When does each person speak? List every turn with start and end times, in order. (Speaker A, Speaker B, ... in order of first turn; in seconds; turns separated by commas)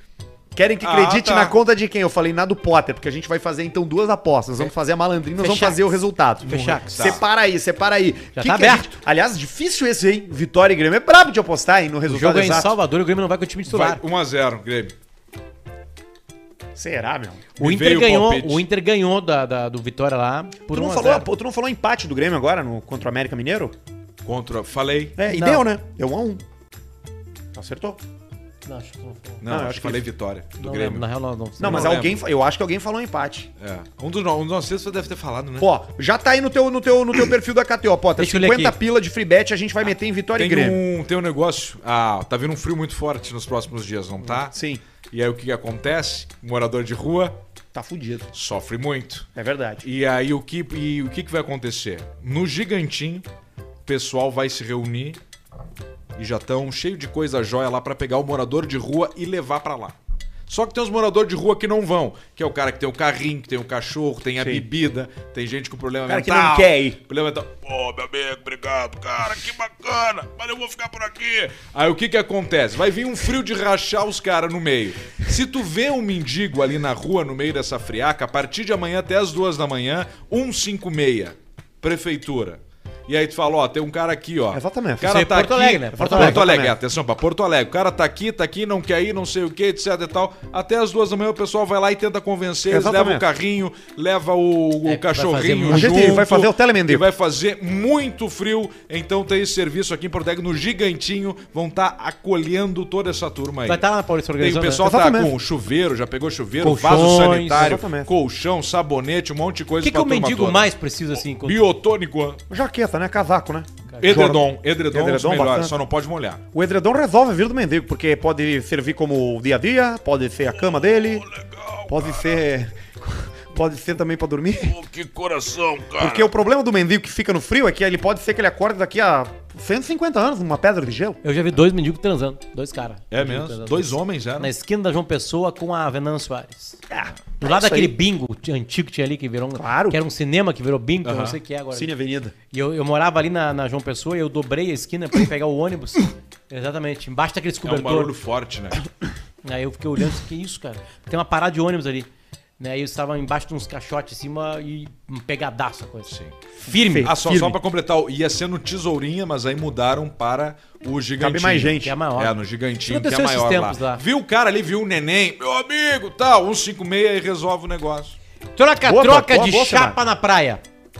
Speaker A: 0.5-12.7, Speaker B: 0.8-1.5, Speaker C: 5.4-7.2, Speaker B: 6.5-7.2, Speaker C: 8.3-8.9, Speaker C: 12.1-14.0, Speaker B: 13.7-14.9, Speaker A: 16.7-17.4, Speaker C: 17.6-21.3, Speaker B: 17.6-18.6, Speaker A: 20.7-23.7, Speaker B: 24.2-25.2, Speaker A: 25.2-26.4, Speaker C: 25.3-25.6, Speaker A: 27.5-28.0, Speaker C: 28.6-29.4, Speaker B: 29.4-31.0, Speaker A: 29.4-30.1, Speaker C: 30.6-31.9, Speaker B: 31.6-32.2, Speaker A: 31.6-33.5, Speaker B: 33.6-35.7, Speaker A: 35.6-40.8, Speaker C: 38.2-38.8, Speaker B: 40.4-44.5, Speaker A: 44.4-44.8, Speaker B: 45.1-47.4, Speaker A: 47.7-48.3, Speaker B: 48.3-49.3, Speaker A: 49.3-49.8, Speaker B: 49.8-53.2, Speaker B: 53.9-55.2, Speaker B: 56.1-59.9, Speaker B: 60.5-103.8, Speaker A: 64.4-64.6, Speaker A: 66.1-67.0, Speaker A: 84.5-85.1, Speaker C: 85.0-86.4, Speaker A: 85.9-86.8, Speaker A: 92.7-93.2, Speaker C: 94.8-96.2, Speaker A: 95.7-97.0, Speaker C: 103.7-104.8, Speaker B: 104.4-110.7, Speaker A: 104.8-105.3, Speaker C: 106.6-107.8, Speaker A: 107.5-108.1, Speaker C: 109.8-111.6, Speaker B: 111.3-112.4, Speaker A: 112.5-115.8, Speaker B: 114.0-116.4, Speaker A: 116.5-121.2, Speaker B: 121.3-122.2, Speaker A: 121.9-124.8, Speaker B: 124.6-126.3, Speaker A: 126.0-131.2, Speaker C: 131.2-136.8, Speaker B: 133.1-134.5, Speaker A: 136.9-137.9, Speaker C: 137.4-141.9, Speaker A: 139.6-140.0, Speaker B: 141.0-141.4, Speaker A: 141.7-142.3, Speaker C: 142.5-148.1, Speaker B: 147.6-148.8, Speaker C: 149.4-152.1, Speaker C: 152.6-157.1, Speaker B: 156.1-156.3, Speaker A: 156.7-157.6, Speaker B: 156.9-168.2, Speaker A: 161.2-161.9, Speaker C: 161.8-164.0, Speaker C: 168.6-170.6, Speaker A: 168.8-170.0